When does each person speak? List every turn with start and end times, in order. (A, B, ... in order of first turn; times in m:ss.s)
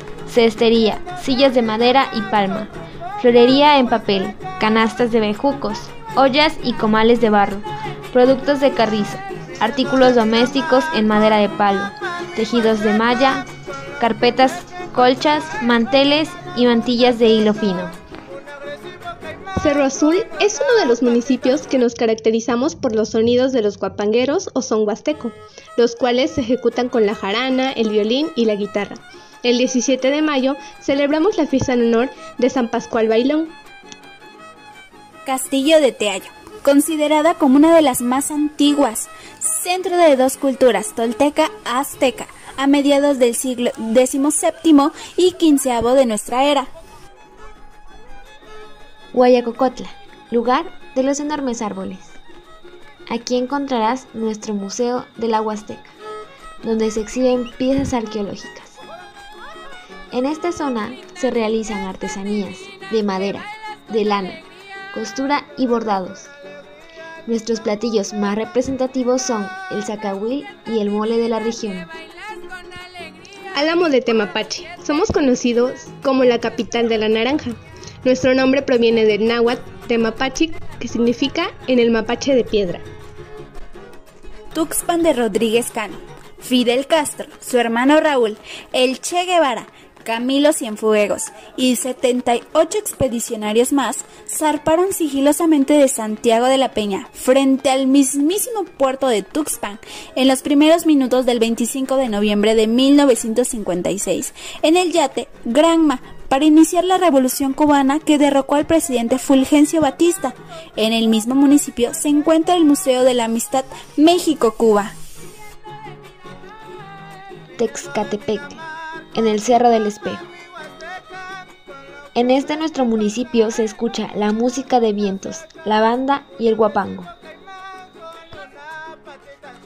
0:00.2-0:13.5 A
0:14.0-0:18.0 A
0:19.6-0:33.5 B
0:35.2-0:46.7 C
0:49.1-0:52.2 A
0:53.1-0:55.9 A
0:56.6-0:58.8 A
1:00.1-1:06.3 A
1:07.2-1:11.9 A
1:13.5-1:22.8 B
1:24.5-1:54.9 C
1:57.6-1:58.6 A
1:59.1-2:00.3 A
2:02.1-2:07.1 A